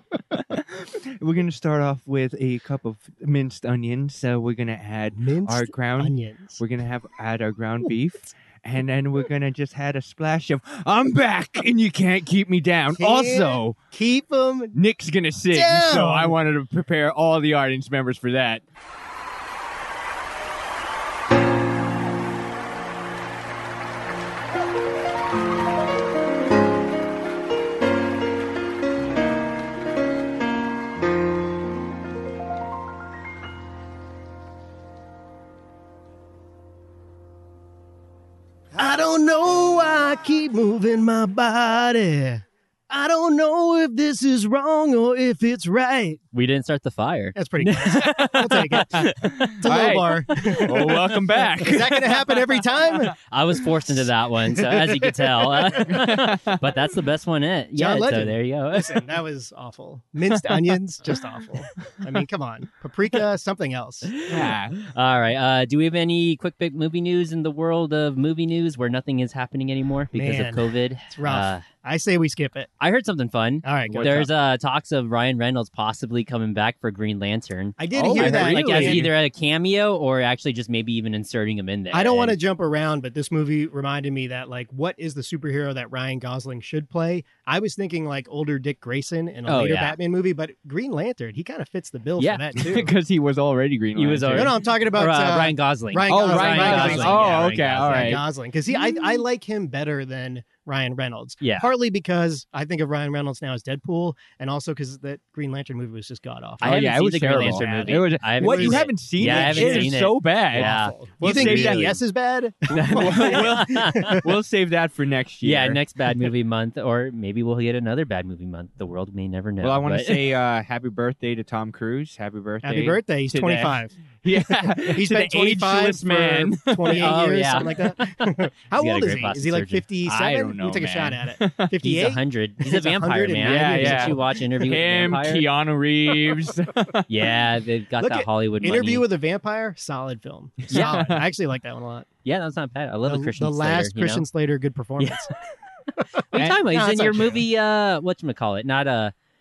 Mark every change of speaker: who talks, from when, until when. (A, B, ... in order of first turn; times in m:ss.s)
0:00.3-0:13.8 A
0:05.2-0:06.6 B
0:13.0-0:14.7 B
0:14.7-0:18.6 A
0:15.5-0:16.4 B
0:38.7-0:46.2 B
0:46.3-0:49.6 C
0:47.3-0:53.1 B
0:49.0-0:52.5 A
0:53.3-0:58.9 C
0:54.5-0:56.0 B
0:55.8-0:56.6 A
0:57.8-1:04.1 B
1:04.2-1:11.6 C
1:04.3-1:04.8 A
1:10.1-1:12.7 B
1:12.8-1:22.4 C
1:13.6-1:14.3 B
1:13.9-1:14.3 A
1:17.8-1:19.1 B
1:17.9-1:19.1 A
1:21.9-1:32.9 B
1:29.4-1:30.0 C
1:32.2-1:32.4 C
1:32.6-1:34.5 A
1:34.0-1:38.2 C
1:34.3-1:54.3 B
1:36.1-1:38.2 A
1:41.4-1:41.7 C
1:46.6-1:52.0 C
1:46.6-1:52.0 A
1:52.7-1:54.2 C
1:52.8-1:56.3 A
1:55.4-2:00.3 C
1:59.6-2:07.1 A
2:02.6-2:14.2 B
2:07.0-2:09.8 C
2:10.1-2:11.7 A
2:11.8-2:15.4 C
2:13.4-2:17.1 A
2:17.1-2:19.0 C
2:18.0-2:22.1 B
2:20.7-2:21.0 C
2:20.7-2:21.1 A
2:22.2-2:24.2 C
2:23.1-2:25.3 B
2:25.0-2:25.2 C
2:26.3-2:29.1 C
2:26.3-2:27.4 B